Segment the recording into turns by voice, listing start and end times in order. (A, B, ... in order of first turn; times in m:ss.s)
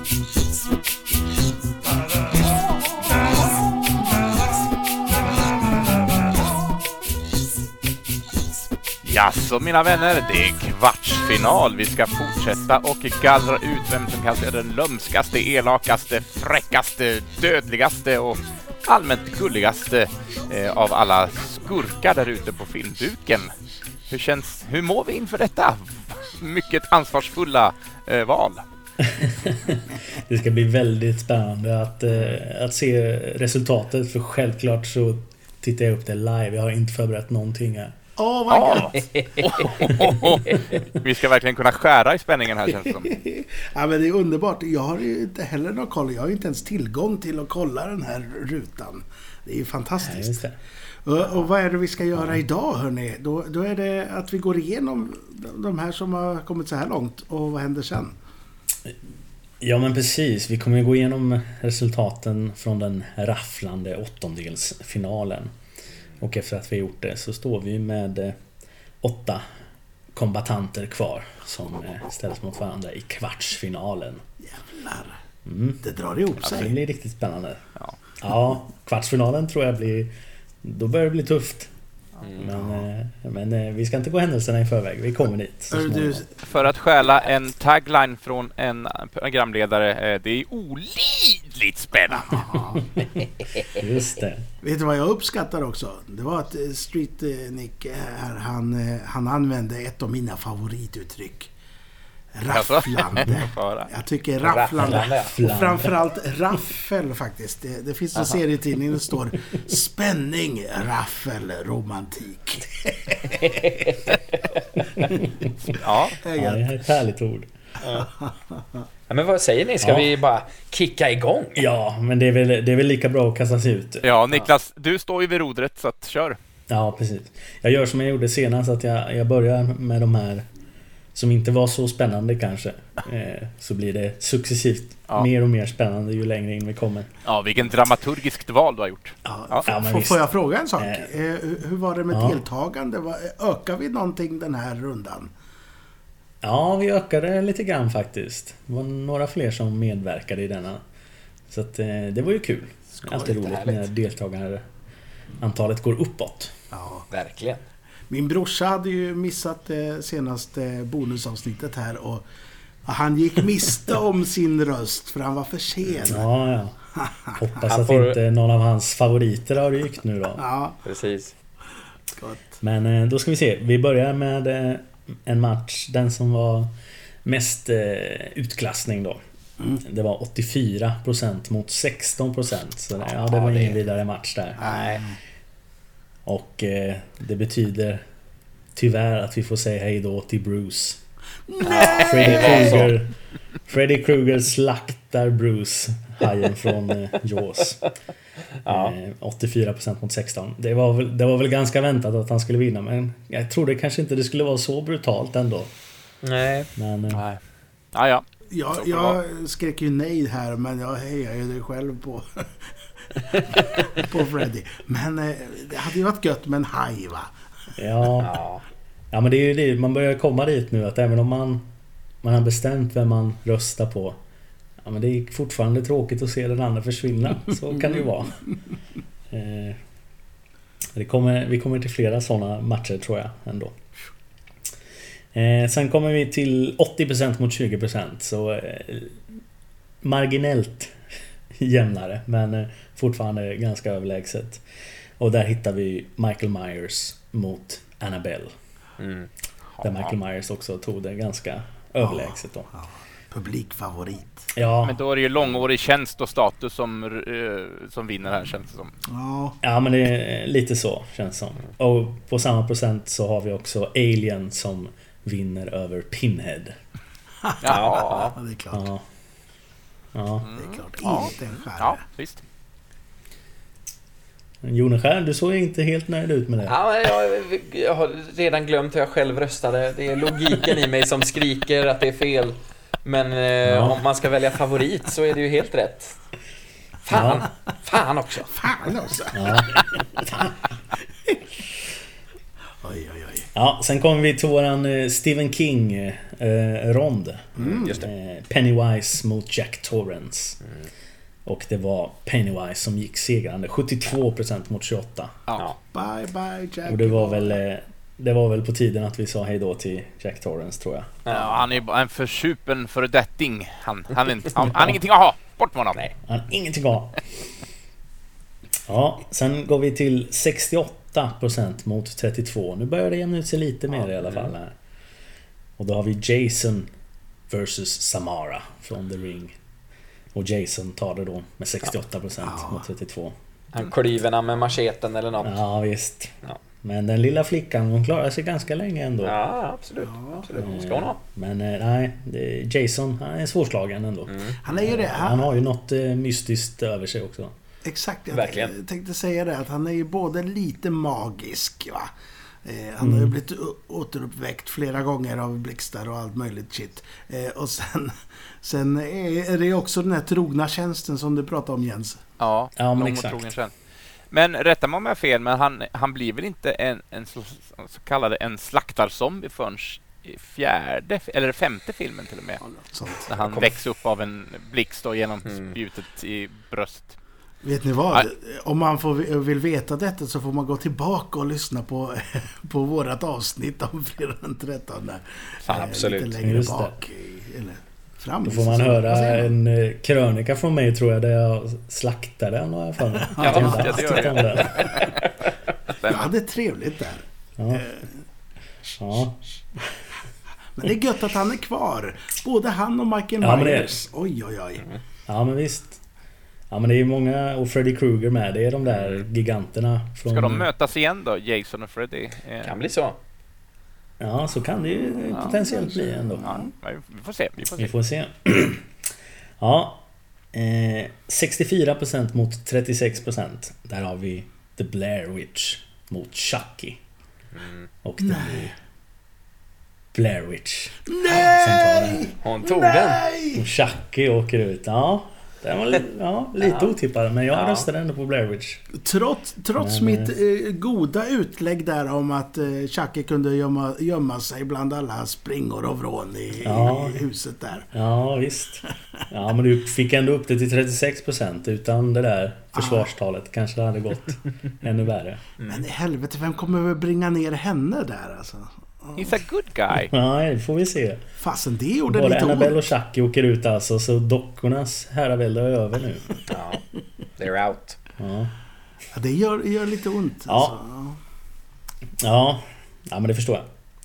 0:09.0-0:23.5 A
0:24.1-0:28.6 A
0:29.0-0:38.0 B
0:38.2-0:39.4 C
0:38.5-0:43.1 A
0:38.9-0:40.6 D
0:42.7-0:50.4 C
0:50.0-0:50.6 B
0:51.0-0:58.2 C
0:52.2-0:52.4 B
0:59.6-1:05.5 B
1:06.2-1:08.4 B
1:09.0-1:09.4 B
1:10.2-1:14.2 B
1:14.4-1:15.2 C
1:15.4-1:15.8 B
1:15.8-1:16.8 C
1:16.4-1:16.7 A
1:16.4-1:17.6 B
1:18.2-1:20.1 B
1:20.6-1:21.7 B
1:22.2-1:22.5 D
1:22.4-1:26.2 B
1:22.5-1:22.9 C
1:25.7-1:26.4 C
1:26.4-1:32.6 A
1:32.1-1:32.8 C
1:33.7-1:34.4 B
1:34.6-1:41.5 C
1:42.3-1:53.9 C
1:42.5-1:43.9 A
1:44.4-1:45.4 D
1:44.8-1:45.9 B
1:48.1-1:48.4 A
1:53.4-1:54.6 D
1:55.0-1:55.8 B
1:55.8-1:56.2 A
1:56.2-1:56.7 C
1:56.4-1:57.5 B
1:57.8-1:58.1 D
1:57.9-1:58.8 C
1:59.1-2:01.7 D
1:59.8-2:00.1 B
2:01.6-2:04.5 B
2:04.0-2:06.4 A
2:06.7-2:10.4 B
2:11.1-2:17.1 B
2:17.2-2:19.7 A
2:19.2-2:25.3 C
2:19.7-2:21.1 B
2:22.1-2:22.4 B
2:26.4-2:30.8 B
2:31.5-2:34.6 B
2:32.9-2:33.5 C
2:33.4-2:33.8 D
2:35.4-2:36.5 B
2:36.7-2:37.1 C
2:37.1-2:37.6 D
2:38.1-2:42.2 C
2:42.8-2:46.2 C
2:46.0-2:46.8 B
2:47.0-2:47.4 C
2:47.4-2:50.4 B
2:47.6-2:48.2 D
2:50.4-2:50.8 C
2:50.8-2:51.3 D
2:52.1-2:52.6 C
2:52.6-2:56.7 B
2:57.2-2:59.2 B
2:59.8-3:04.6 B
3:03.2-3:03.8 D
3:04.6-3:05.2 C
3:04.7-3:05.0 D
3:06.2-3:08.0 B
3:08.7-3:11.0 B
3:11.5-3:12.8 C
3:11.6-3:12.9 D
3:11.8-3:13.1 B
3:13.7-3:17.8 B
3:18.6-3:19.0 D
3:18.7-3:25.7 B
3:26.2-3:26.7 D
3:26.8-3:27.2 B
3:27.1-3:27.4 A
3:27.9-3:28.2 A
3:28.5-3:37.3 C
3:28.8-3:29.2 D
3:37.8-3:38.4 B
3:38.2-3:38.6 D
3:39.1-3:41.7 B
3:42.2-3:44.2 B
3:44.8-3:48.4 B
3:49.3-3:49.8 B
3:51.0-3:53.7 B
3:55.3-3:59.2 B
4:00.0-4:00.9 B
4:01.6-4:04.6 B
4:05.2-4:08.5 B
4:09.0-4:09.3 D
4:09.8-4:10.1 A
4:09.8-4:12.7 B
4:12.0-4:14.5 C
4:14.6-4:15.0 B
4:14.8-4:18.9 A
4:19.1-4:19.6 C
4:19.6-4:26.8 B
4:27.4-4:27.7 C
4:27.6-4:28.3 A
4:27.6-4:28.4 D
4:28.2-4:28.9 C
4:28.7-4:29.0 B
4:30.1-4:30.5 B
4:30.4-4:32.4 A
4:30.6-4:32.1 C
4:34.6-4:36.8 B
4:36.6-4:46.2 D
4:43.6-4:44.0 B
4:47.0-4:48.5 D
4:47.1-4:47.5 B
4:48.5-4:50.0 C
4:49.3-4:50.5 B
4:52.8-4:53.5 C
4:53.5-5:00.6 B
4:57.6-4:57.9 C
4:57.7-4:58.1 D
5:01.4-5:05.4 B
5:05.9-5:07.6 C
5:06.8-5:11.1 B
5:11.2-5:11.7 D
5:11.3-5:16.1 A
5:14.6-5:15.0 B
5:16.2-5:17.2 B
5:18.9-5:24.7 B
5:24.2-5:24.5 D
5:25.8-5:26.9 B
5:27.5-5:29.6 B
5:30.3-5:33.3 B
5:32.4-5:32.8 C
5:33.7-5:35.6 D
5:35.4-5:39.4 B
5:39.2-5:41.2 D
5:40.0-5:40.5 C
5:40.6-5:47.5 B
5:44.3-5:44.6 D
5:44.6-5:45.6 C
5:47.8-5:52.1 C
5:48.3-5:48.8 D
5:52.6-6:02.2 C
5:53.0-5:53.3 B
6:02.4-6:03.7 A
6:02.8-6:03.5 B
6:04.3-6:12.6 A
6:12.6-6:13.3 C
6:13.2-6:17.2 A
6:13.3-6:13.8 D
6:15.4-6:15.7 D
6:17.6-6:29.6 C
6:25.6-6:25.9 A
6:25.7-6:26.3 D
6:26.4-6:27.0 B
6:28.4-6:34.9 B
6:33.1-6:33.9 C
6:33.4-6:35.5 D
6:33.6-6:35.2 A
6:36.1-6:38.2 C
6:37.6-6:37.8 B
6:39.0-6:39.2 C
6:39.0-6:39.4 B
6:40.8-6:44.8 C
6:43.4-6:43.9 B
6:45.3-6:46.0 B
6:46.7-6:50.7 B
6:48.8-6:49.2 D
6:50.2-6:52.8 A
6:52.6-6:53.2 D
6:54.2-6:56.6 B
6:55.2-6:56.7 C
6:55.3-6:55.6 A
6:56.4-6:57.9 A
6:57.8-6:58.9 B
6:59.6-7:07.0 B
7:07.5-7:07.9 D
7:08.0-7:08.7 B
7:08.2-7:08.7 C
7:10.1-7:12.3 B
7:11.0-7:13.6 C
7:12.4-7:13.2 D
7:13.6-7:18.8 B
7:16.6-7:16.9 D
7:17.5-7:17.9 D
7:18.9-7:27.9 C
7:19.8-7:20.3 B
7:26.6-7:27.2 B
7:27.9-7:35.4 B
7:32.7-7:33.1 C
7:35.7-7:39.4 C
7:39.2-7:40.1 A
7:39.9-7:41.2 B
7:41.4-7:42.9 C
7:42.1-7:46.4 B
7:46.5-7:46.8 D
7:47.4-7:48.0 D
7:48.2-7:48.5 B
7:49.1-7:51.2 C
7:50.5-7:50.8 B
7:52.2-7:53.6 B